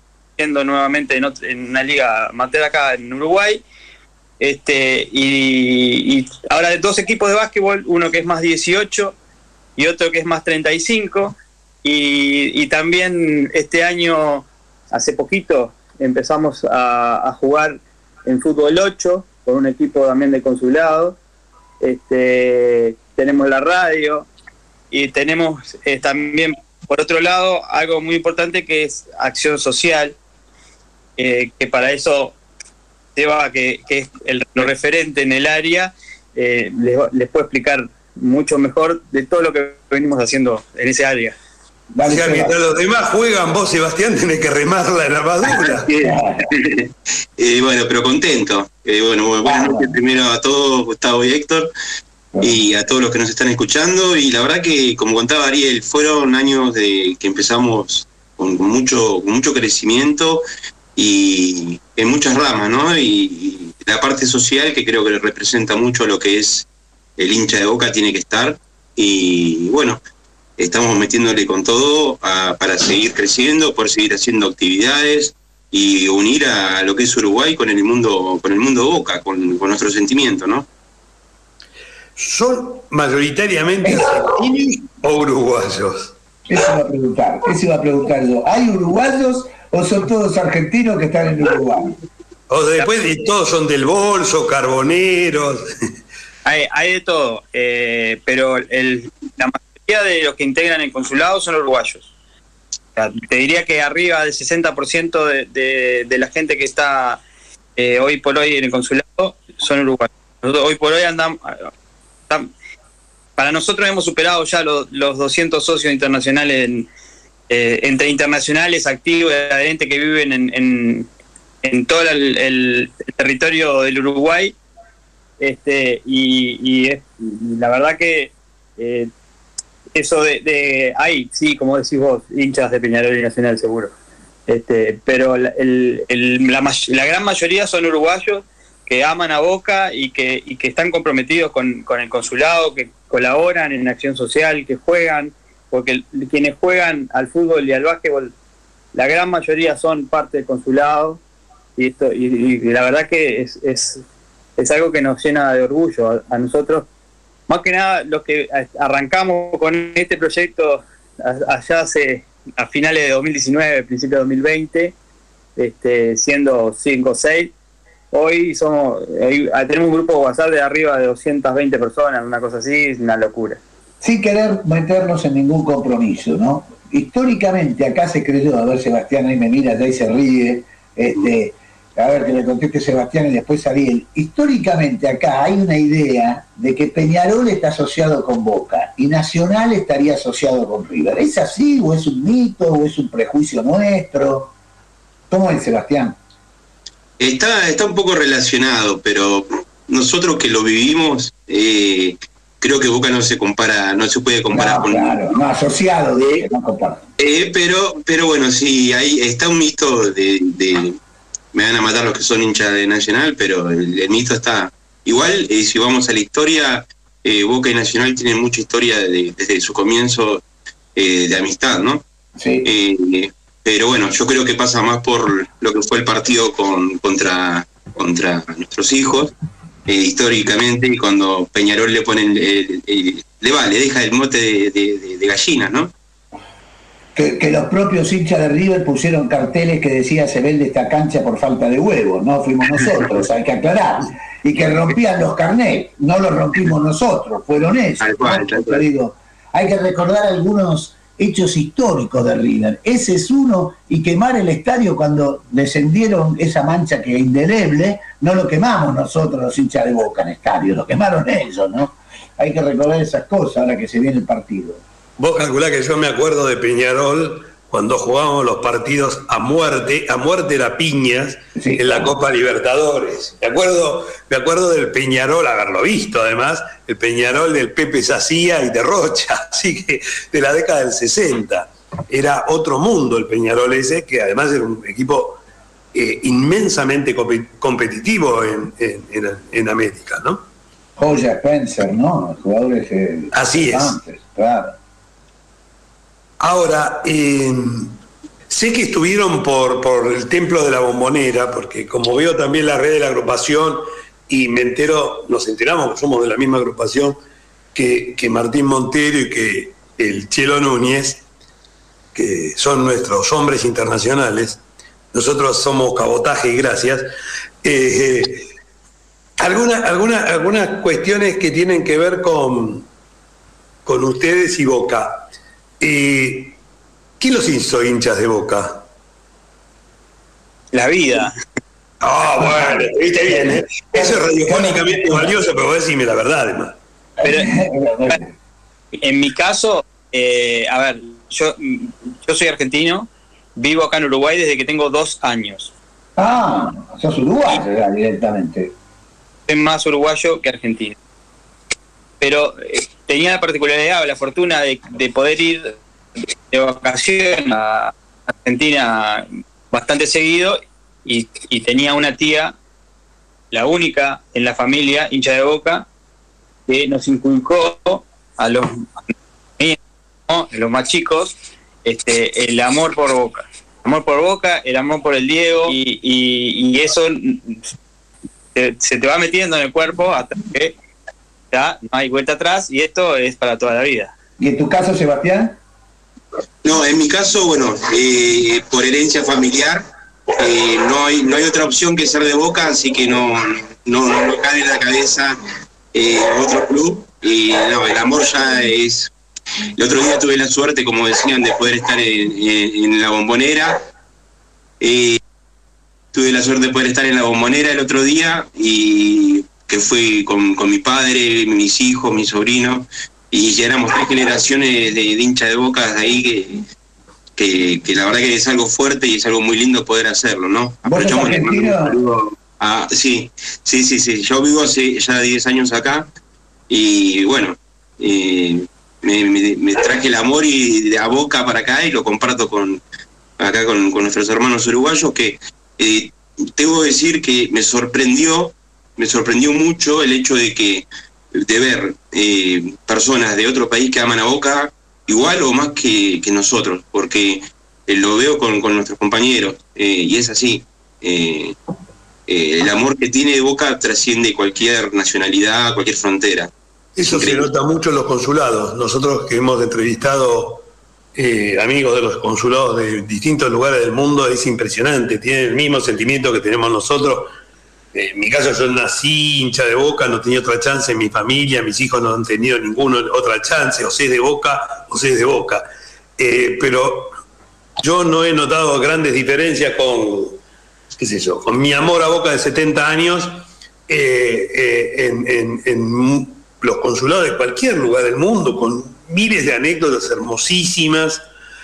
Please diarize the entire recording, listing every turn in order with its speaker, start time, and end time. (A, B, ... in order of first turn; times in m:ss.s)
0:00.4-0:03.6 A
0:04.4-0:09.1 A
0:09.8-0:21.2 A
0:21.8-0:24.3 A
0:24.9-0:30.2 A
0:31.2-0:32.4 A
0:33.2-0:41.4 A
0:41.9-0:42.5 B
0:42.0-0:45.9 C
0:45.4-0:51.7 D
0:46.0-0:46.5 B
0:49.4-0:50.0 B
0:52.3-0:52.6 B
0:52.4-1:00.4 D
1:01.0-1:10.0 D
1:10.6-1:20.7 D
1:22.2-1:26.1 C
1:23.8-1:24.3 B
1:26.5-1:32.0 B
1:32.5-1:35.6 C
1:32.8-1:33.3 A
1:36.4-1:42.1 A
1:43.0-1:47.2 A
1:47.8-1:51.7 A
1:53.4-1:56.9 A
1:57.5-2:01.1 A
2:01.6-2:04.6 A
2:05.4-2:09.1 A
2:09.9-2:13.9 A
2:14.5-2:28.3 A
2:28.9-2:31.2 A
2:31.8-2:34.0 A
2:34.6-2:36.9 A
2:37.5-2:44.9 A
2:45.6-2:47.5 A
2:48.1-2:53.6 A
2:54.0-3:14.5 B
3:15.3-3:16.2 B
3:17.2-3:25.4 D
3:24.5-3:27.0 B
3:27.2-3:31.0 D
3:31.5-3:40.4 D
3:41.0-3:42.0 D
3:42.4-3:42.7 B
3:42.6-3:49.3 D
3:49.8-3:55.9 D
3:57.1-4:24.8 B
4:08.0-4:08.8 D
4:25.2-4:45.4 C
4:31.5-4:32.1 B
4:45.9-4:50.4 C
4:51.0-4:54.8 B
4:53.3-4:54.0 C
4:56.4-4:58.0 C
4:58.5-5:07.2 C
5:07.7-5:11.2 C
5:12.1-5:14.6 C
5:15.1-5:17.1 C
5:17.6-5:18.5 C
5:19.4-5:22.9 C
5:23.8-5:25.3 C
5:25.8-5:26.6 C
5:27.2-5:28.9 C
5:30.7-5:31.3 A
5:32.0-5:36.8 C
5:32.4-5:35.3 B
5:37.2-5:38.3 B
5:37.2-5:37.5 A
5:38.9-5:45.7 A
5:46.2-5:48.7 B
5:49.5-5:51.0 A
5:52.2-5:55.7 A
5:56.5-6:02.6 A
6:03.5-6:05.9 A
6:06.7-6:17.6 A
6:18.5-6:20.8 A
6:21.5-6:24.1 A
6:24.4-6:25.6 B
6:26.6-6:29.8 D
6:30.4-6:35.4 D
6:35.9-6:39.1 D
6:39.8-6:43.8 D
6:44.8-6:45.2 D
6:46.1-6:56.6 D
6:57.4-7:06.1 D
7:00.8-7:02.0 B
7:06.7-7:12.8 D
7:13.4-7:31.5 D
7:32.3-7:36.5 D
7:37.0-7:47.3 C
7:37.1-7:37.5 D
7:47.9-7:55.6 C
7:56.2-7:57.1 C
7:57.8-8:00.4 C
8:01.0-8:11.2 C